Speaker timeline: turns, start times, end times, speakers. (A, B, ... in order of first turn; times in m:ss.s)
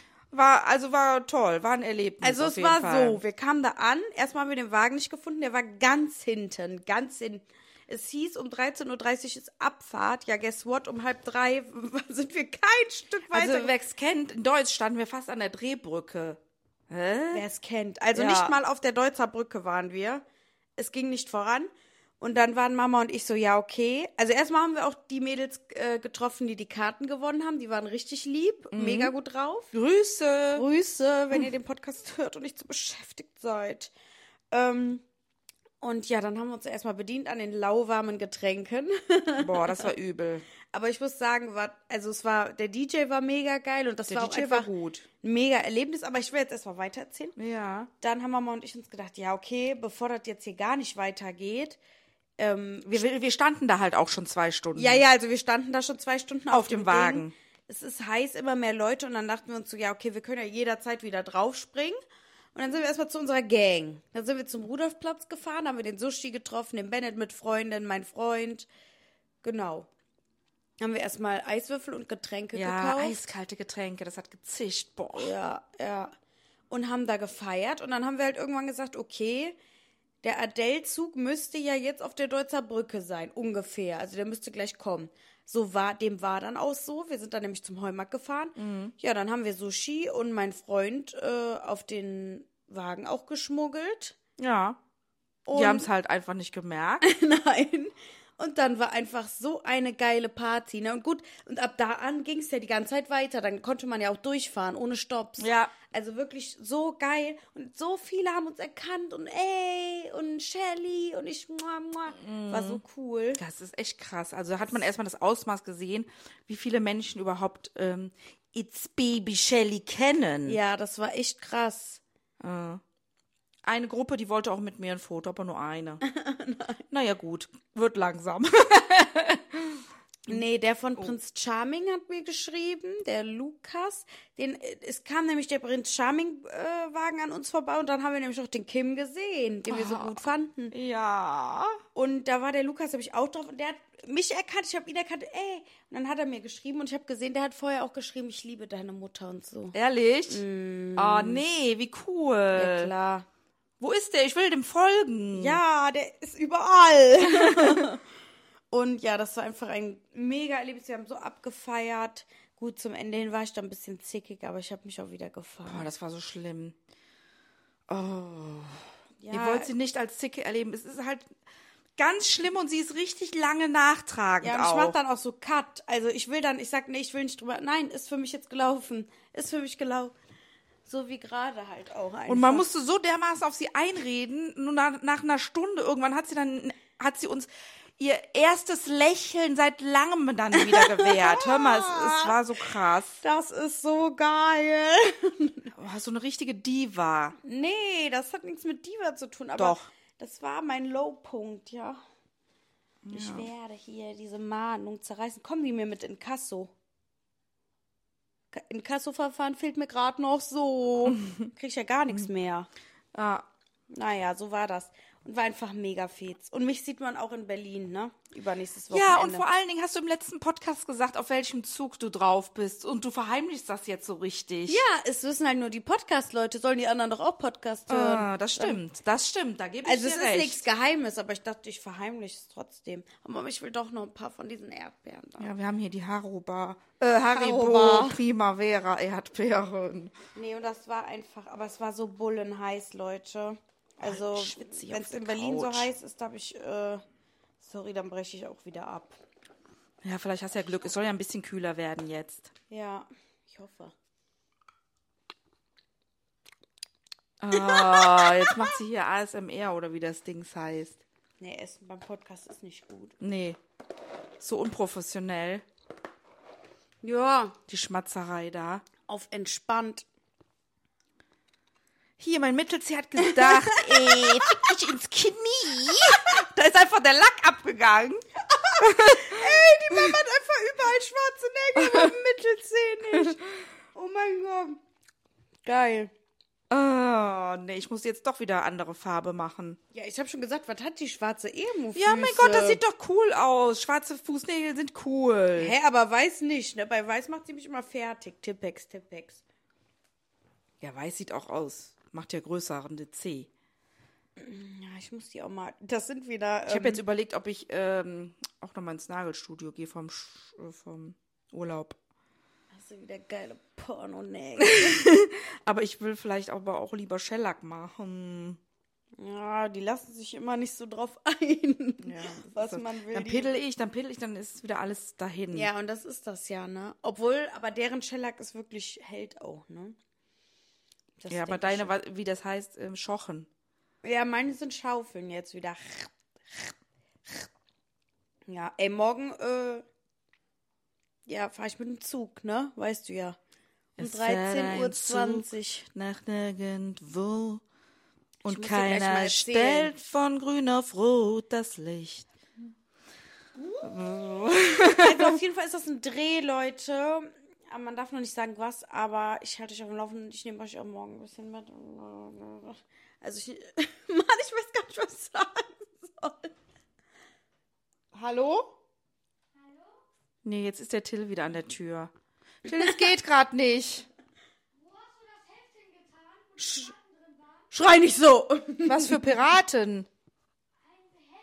0:00.3-0:03.2 A
0:02.2-0:13.7 B
0:13.3-0:16.4 A
0:16.9-0:17.5 A
0:17.3-0:20.2 B
0:18.2-0:18.6 A
0:20.8-0:29.7 B
0:28.7-0:29.1 A
0:29.7-0:30.6 A
0:30.6-0:33.9 B
0:34.5-0:35.0 B
0:35.8-0:39.9 B
0:39.4-0:40.5 A
0:40.7-0:47.4 B
0:44.1-0:45.1 A
0:47.4-0:47.9 A
0:48.0-0:51.8 B
0:52.4-0:53.0 B
0:52.9-0:55.0 A
0:54.8-1:02.0 B
0:56.5-0:57.3 A
1:02.6-1:08.7 B
1:09.4-1:09.9 B
1:10.8-1:13.2 B
1:12.5-1:15.3 A
1:15.2-1:16.1 B
1:16.7-1:19.6 B
1:20.2-1:34.2 B
1:28.6-1:28.9 A
1:34.4-1:34.8 A
1:35.5-1:35.9 B
1:35.5-1:37.0 A
1:37.0-1:53.4 B
1:45.4-1:45.7 A
1:52.2-1:52.8 A
1:53.4-2:00.6 A
2:00.5-2:02.0 B
2:02.4-2:02.8 A
2:03.6-2:06.0 A
2:06.0-2:06.8 B
2:06.9-2:10.3 A
2:10.3-2:20.7 B
2:19.7-2:20.1 A
2:20.7-2:21.8 A
2:22.0-2:29.8 B
2:29.7-2:30.4 A
2:30.3-2:31.4 B
2:31.0-2:32.9 A
2:32.5-2:33.3 B
2:33.8-2:35.6 A
2:35.3-2:38.0 B
2:38.7-2:45.9 B
2:45.7-2:46.8 A
2:47.9-2:48.8 A
2:49.2-2:49.7 B
2:49.3-2:51.3 A
2:52.0-2:55.0 A
2:54.4-3:00.1 B
3:00.9-3:02.7 B
3:02.3-3:07.5 A
3:08.0-3:13.2 A
3:10.6-3:12.4 B
3:13.2-3:15.7 B
3:15.8-3:17.4 A
3:17.4-3:22.0 B
3:19.6-3:19.9 A
3:23.0-3:23.5 A
3:23.1-3:26.7 B
3:28.5-3:32.7 B
3:33.1-3:33.4 A
3:33.9-3:39.4 B
3:38.9-3:44.8 A
3:44.7-3:48.8 B
3:47.9-3:50.6 A
3:49.8-3:55.5 B
3:55.4-4:00.1 A
3:57.3-3:58.2 B
4:00.3-4:07.0 B
4:04.0-4:05.9 A
4:07.6-4:09.2 B
4:10.0-4:12.5 A
4:12.7-4:13.9 B
4:17.4-4:21.0 A
4:17.6-4:18.5 B
4:21.4-4:23.2 B
4:23.2-4:23.6 A
4:24.4-4:25.6 A
4:27.0-4:27.6 B
4:27.7-4:28.8 A
4:29.1-4:30.1 B
4:32.2-4:38.2 A
4:33.4-4:34.4 B
4:38.5-4:44.8 B
4:38.8-4:39.4 A
4:45.6-4:46.1 B
4:46.7-4:49.8 A
4:49.9-4:52.8 B
4:52.0-4:55.7 A
4:55.6-4:59.4 B
5:00.8-5:03.5 A
5:04.4-5:07.0 B
5:06.7-5:12.0 A
5:12.7-5:15.1 B
5:14.7-5:18.6 A
5:19.2-5:23.6 B
5:22.0-5:25.7 A
5:25.5-5:30.0 B
5:31.2-5:32.0 B
5:31.3-5:33.5 A
5:34.0-5:36.7 B
5:38.5-5:39.8 B
5:41.3-5:43.4 B
5:44.0-5:47.6 A
5:44.0-5:45.9 B
5:48.4-5:49.9 B
5:48.5-5:52.3 A
5:53.8-5:55.4 A
5:54.9-6:06.5 B
6:08.1-6:08.7 A
6:10.4-6:12.1 A
6:12.6-6:14.1 A
6:16.5-6:17.0 B
6:17.7-6:19.2 B
6:18.9-6:20.1 A